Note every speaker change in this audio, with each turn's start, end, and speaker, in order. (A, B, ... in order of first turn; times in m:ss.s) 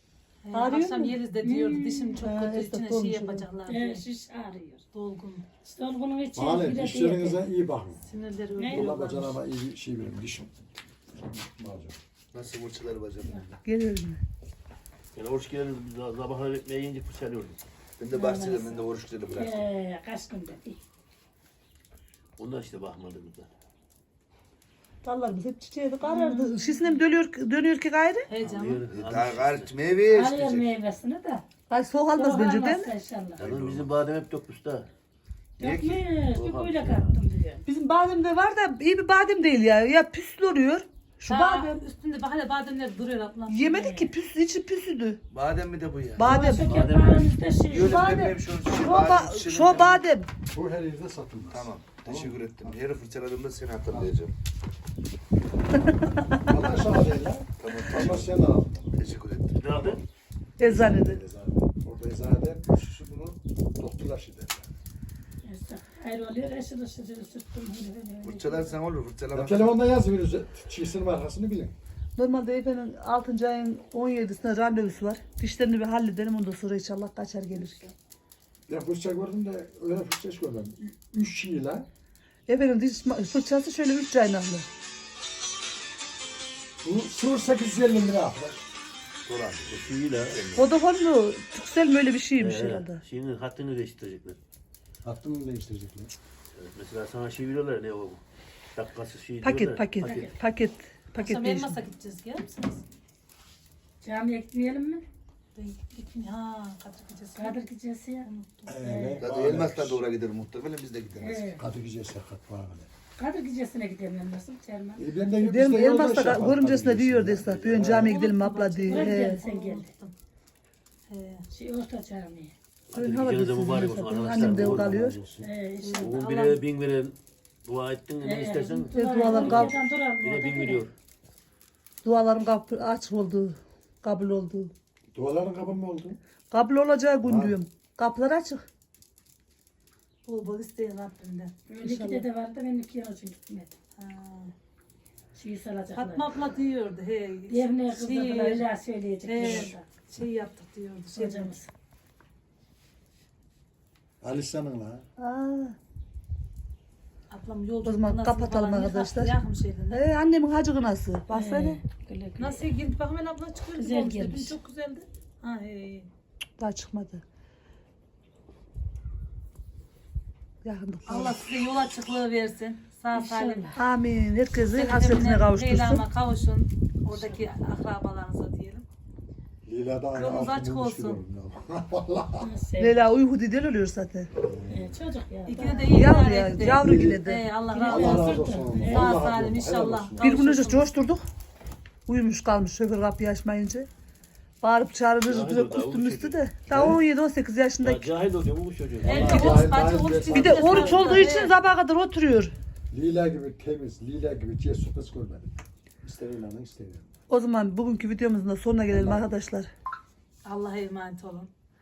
0:00.5-0:04.0 A
0:00.5-0:01.2 B
0:01.4-0:02.2 C
0:02.2-0:03.4 B
0:03.7-0:04.8 C
0:04.9-0:05.5 A
0:05.6-0:07.4 C
0:06.4-0:08.0 D
0:08.1-0:09.4 A
0:08.6-0:08.9 C
0:08.7-0:10.5 D
0:11.2-0:12.0 D
0:12.3-0:13.5 E
0:13.6-0:14.2 B
0:15.2-0:17.6 F
0:18.0-0:19.7 E
0:18.1-0:20.8 C
0:22.4-0:23.5 F
0:25.0-0:28.3 B
0:26.0-0:26.9 C
0:28.3-0:28.9 A
0:28.4-0:30.7 E
0:28.5-0:29.7 F
0:30.1-0:31.4 C
0:31.7-0:32.9 B
0:32.1-0:33.4 C
0:33.4-0:33.9 E
0:33.4-0:34.9 F
0:35.6-0:36.0 E
0:35.6-0:37.6 C
0:36.2-0:37.2 F
0:37.6-0:41.8 B
0:41.3-0:43.9 A
0:43.5-0:45.2 B
0:43.8-0:44.1 C
0:45.3-0:50.0 E
0:46.2-0:46.8 B
0:46.2-0:48.3 C
0:47.8-0:50.3 B
0:50.5-0:51.7 D
0:51.5-0:54.3 E
0:56.4-0:59.0 D
0:57.6-0:58.3 E
0:59.0-1:00.0 E
0:59.6-1:00.0 F
1:00.6-1:01.2 B
1:00.6-1:04.7 D
1:05.4-1:08.8 C
1:08.2-1:09.8 E
1:09.3-1:11.8 D
1:12.2-1:17.9 B
1:18.7-1:21.9 D
1:22.5-1:24.7 B
1:26.8-1:28.6 D
1:29.2-1:30.6 E
1:29.7-1:30.6 F
1:30.6-1:33.0 B
1:32.4-1:34.4 F
1:35.0-1:36.1 D
1:36.5-1:38.2 F
1:38.8-1:40.2 F
1:39.4-1:41.8 B
1:40.0-1:40.3 C
1:41.2-1:42.8 A
1:44.0-1:45.0 C
1:45.6-1:47.6 A
1:47.4-1:49.2 C
1:48.2-1:48.7 A
1:48.7-1:50.0 D
1:49.2-1:51.6 E
1:51.2-1:51.6 C
1:51.6-1:52.9 D
1:53.2-1:55.1 C
1:55.0-1:58.2 D
1:55.4-1:59.4 B
1:57.4-1:57.9 F
1:57.9-2:00.1 A
1:58.9-1:59.9 C
2:01.1-2:01.4 A
2:01.5-2:02.5 C
2:02.9-2:05.2 B
2:02.9-2:05.4 F
2:04.5-2:05.3 D
2:05.4-2:06.1 C
2:05.8-2:06.6 A
2:06.0-2:10.9 F
2:08.2-2:10.9 C
2:08.9-2:09.7 B
2:12.0-2:14.7 B
2:15.1-2:16.2 D
2:16.5-2:18.6 B
2:17.2-2:17.6 D
2:20.2-2:21.5 A
2:21.7-2:23.8 C
2:21.8-2:22.3 B
2:24.0-2:24.5 A
2:25.4-2:26.3 C
2:25.9-2:28.7 A
2:27.5-2:29.8 C
2:29.2-2:31.6 A
2:31.1-2:31.7 C
2:34.2-2:35.0 D
2:35.2-2:35.8 B
2:37.3-2:40.0 A
2:37.8-2:39.3 B
2:39.9-2:41.8 B
2:41.3-2:42.7 C
2:42.4-2:46.1 A
2:43.8-2:44.6 C
2:46.6-2:47.2 B
2:50.6-2:51.4 B
2:51.1-2:53.7 A
2:53.1-2:53.8 C
2:53.8-2:56.0 B
2:54.8-2:58.9 A
2:59.7-3:02.5 D
3:00.2-3:01.2 A
3:02.4-3:03.0 C
3:02.8-3:04.3 B
3:04.4-3:05.0 D
3:04.7-3:06.1 C
3:05.5-3:10.9 A
3:05.9-3:07.4 B
3:06.7-3:07.2 D
3:07.8-3:09.2 C
3:07.8-3:10.4 D
3:10.2-3:11.2 B
3:12.1-3:13.9 B
3:14.6-3:18.1 B
3:15.2-3:16.4 F
3:16.7-3:17.0 D
3:17.8-3:19.7 F
3:19.0-3:21.5 A
3:19.0-3:21.2 D
3:20.3-3:22.5 B
3:22.9-3:27.1 D
3:27.3-3:29.7 B
3:28.9-3:29.3 D
3:30.4-3:31.5 A